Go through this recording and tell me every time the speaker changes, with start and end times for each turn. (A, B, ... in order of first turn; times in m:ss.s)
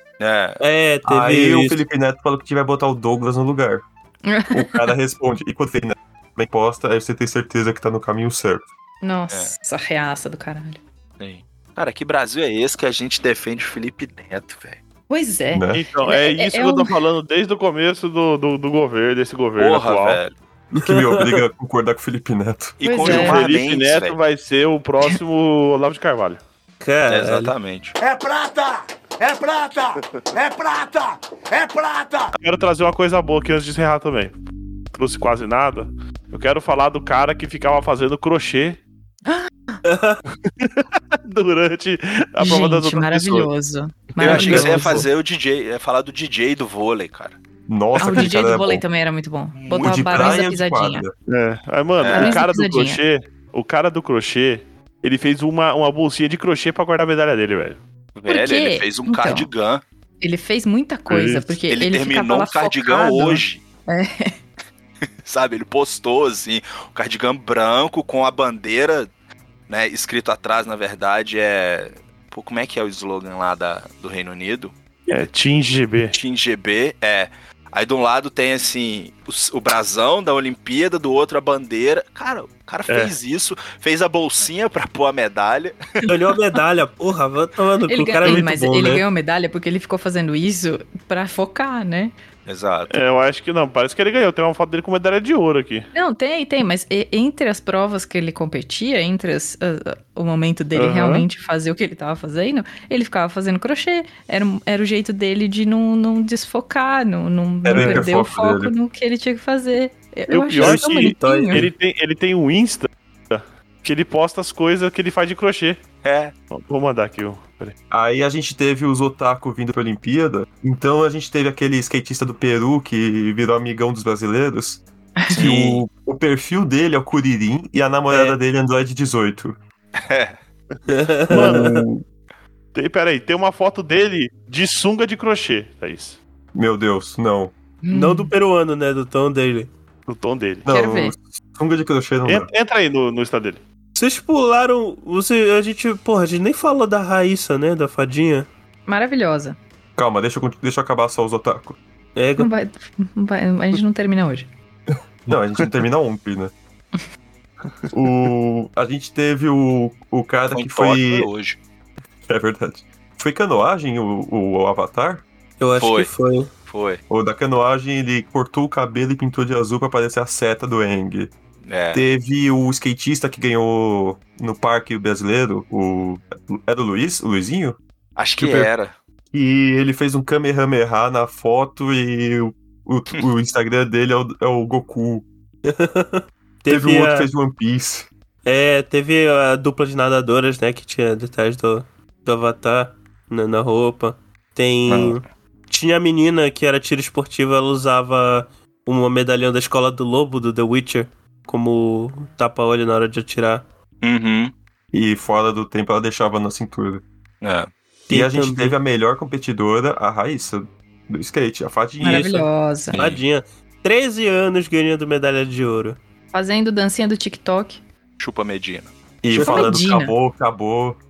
0:00.2-0:00.6 A
0:00.6-0:01.8 B
0:01.0-0:03.8 C
0:04.3-0:04.8 D
0:04.5-0:08.7 C
0:09.0-0:10.8 D
0:11.2-0:14.8 A
0:15.1-0:17.0 D
0:15.5-0:15.8 C
0:15.7-0:20.2 E
0:19.6-0:20.3 A
0:20.7-0:21.4 B
0:20.8-0:22.8 C
0:22.8-0:24.2 A
0:22.8-0:23.4 D
0:23.0-0:26.4 E
0:26.8-0:27.5 B
0:27.1-0:28.0 A
0:28.0-0:32.4 F
0:32.4-0:34.4 E
0:34.9-0:38.8 E
0:39.3-0:39.8 D
0:39.8-0:40.2 B
0:40.3-0:43.5 E
0:42.4-0:45.0 D
0:44.2-0:47.4 A
0:44.3-0:45.0 B
0:44.4-0:44.7 E
0:47.7-0:48.8 C
0:48.0-0:51.1 D
0:49.6-0:50.4 A
0:49.8-0:51.1 C
0:51.3-0:57.8 E
0:52.0-0:52.4 A
0:52.1-0:53.0 D
0:58.2-0:59.8 A
0:58.3-0:59.5 D
1:00.2-1:04.4 D
1:01.1-1:01.5 E
1:01.7-1:03.6 A
1:05.2-1:09.1 A
1:09.7-1:14.7 A
1:15.1-1:16.2 E
1:16.1-1:25.8 A
1:22.9-1:23.1 E
1:26.1-1:29.0 B
1:27.9-1:32.1 D
1:32.5-1:33.0 A
1:32.9-1:35.9 E
1:35.9-1:51.7 D
1:40.8-1:41.3 E
1:47.6-1:48.7 C
1:50.3-1:55.8 E
1:50.6-1:51.7 B
1:56.0-1:56.3 A
1:56.5-1:57.8 E
1:57.9-2:09.6 C
2:05.3-2:05.8 A
2:08.1-2:08.4 B
2:10.0-2:10.4 A
2:10.9-2:11.8 B
2:11.3-2:11.7 E
2:11.3-2:12.0 C
2:12.8-2:16.2 E
2:16.6-2:17.5 C
2:17.8-2:18.3 D
2:17.9-2:19.7 B
2:20.1-2:20.7 E
2:20.6-2:22.5 C
2:20.7-2:21.2 D
2:22.2-2:23.6 E
2:24.0-2:28.5 B
2:28.9-2:29.6 D
2:30.0-2:31.8 C
2:32.2-2:32.5 B
2:32.4-2:34.5 D
2:35.3-2:36.5 C
2:37.9-2:41.3 C
2:40.5-2:41.6 A
2:42.3-2:45.2 C
2:45.6-2:46.5 B
2:45.8-2:46.1 A
2:46.7-2:47.0 A
2:47.1-2:51.3 C
2:51.7-2:52.1 A
2:51.9-2:57.8 C
2:58.2-2:58.9 A
2:58.4-2:58.7 C
2:59.3-3:05.3 C
3:05.7-3:07.3 B
3:06.7-3:08.1 C
3:08.4-3:23.6 B
3:14.9-3:15.2 A
3:24.0-3:24.5 A
3:24.9-3:27.0 C
3:27.4-3:27.7 A
3:28.1-3:28.8 B
3:28.1-3:32.4 C
3:32.0-3:33.0 D
3:32.0-3:36.0 B
3:32.9-3:33.2 A
3:36.3-3:37.8 D
3:38.2-3:38.9 A
3:39.2-3:41.0 C
3:39.3-3:39.7 B
3:39.4-3:40.2 D